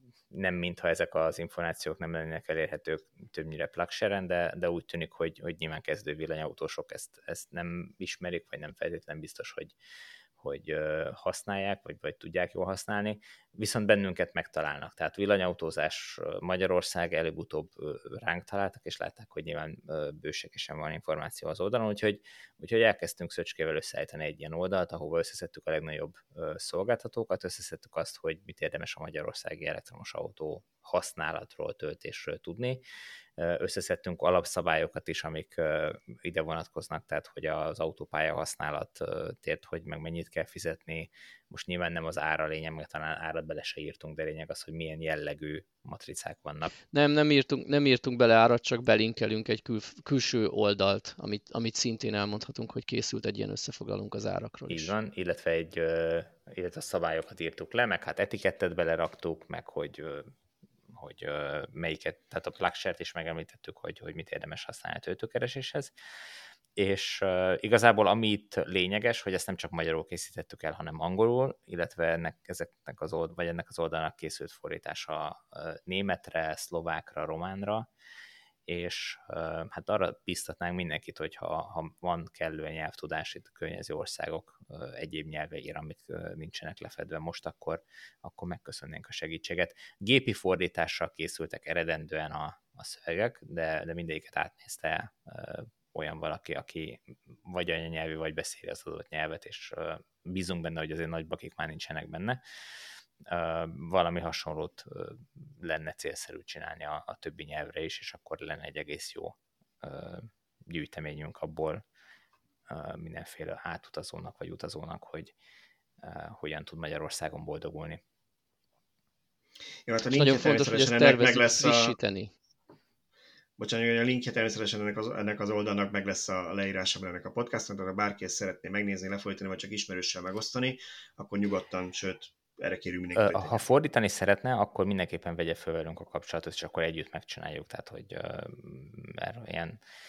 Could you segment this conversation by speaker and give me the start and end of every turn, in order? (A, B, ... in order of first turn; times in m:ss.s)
0:00.3-0:09.8 A
0:10.4-0:32.8 A
0:33.4-0:46.8 A
0:46.9-0:54.9 B
0:54.7-1:00.3 A
1:00.9-1:05.9 A
1:06.8-1:17.9 A
1:18.7-1:42.4 A
1:43.2-1:51.8 A
1:52.7-1:55.4 A
1:56.0-1:58.0 A
1:59.9-2:02.0 C
2:00.1-2:02.3 B
2:03.6-2:13.7 C
2:13.1-2:19.8 A